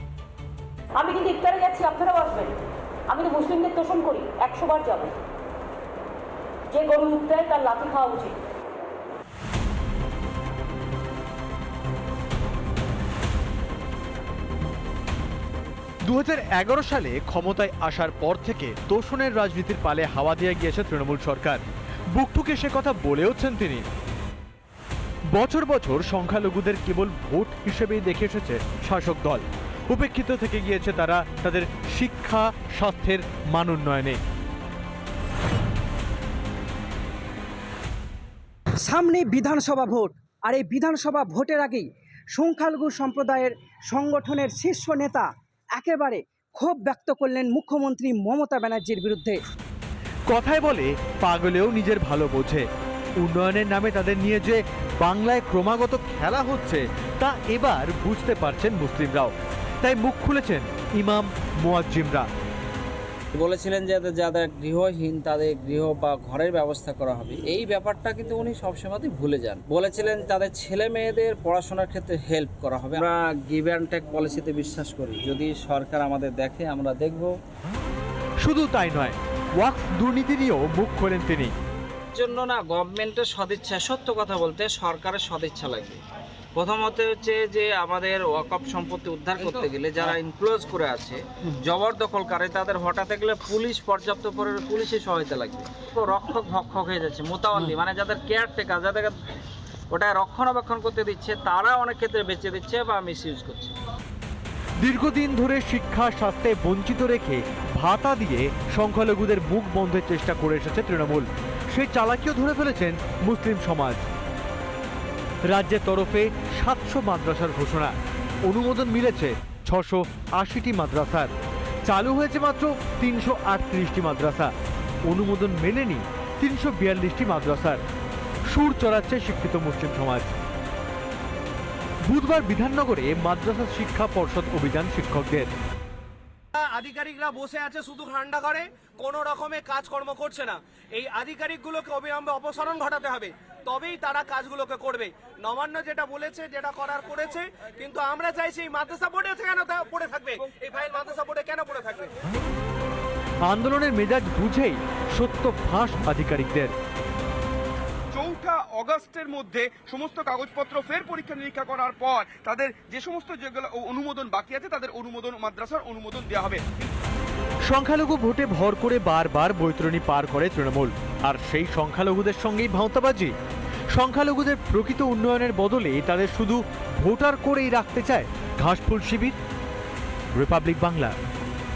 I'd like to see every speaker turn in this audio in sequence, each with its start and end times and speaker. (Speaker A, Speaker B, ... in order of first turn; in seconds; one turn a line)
Speaker A: 1.0-2.6
Speaker A: 3.1-5.2
Speaker A: 6.7-8.4
Speaker B: 16.1-23.9
Speaker B: 25.3-34.2
Speaker C: 38.8-45.3
Speaker C: 45.8-49.4
Speaker B: 50.3-52.7
Speaker B: 53.2-62.3
Speaker D: 63.3-77.3
Speaker B: 78.4-81.5
Speaker D: 82.2-86.0
Speaker D: 86.5-99.2
Speaker D: 99.9-103.7
Speaker B: 104.8-114.1
Speaker B: 115.4-121.3
Speaker B: 121.9-124.5
Speaker B: 125.1-127.8
Speaker B: 128.5-130.3
Speaker B: 132.1-135.5
Speaker E: 136.6-152.1
Speaker B: 153.5-156.7
Speaker F: 158.1-166.9
Speaker B: 167.7-173.3
Speaker B: 173.9-179.4
Speaker B: 180.3-181.2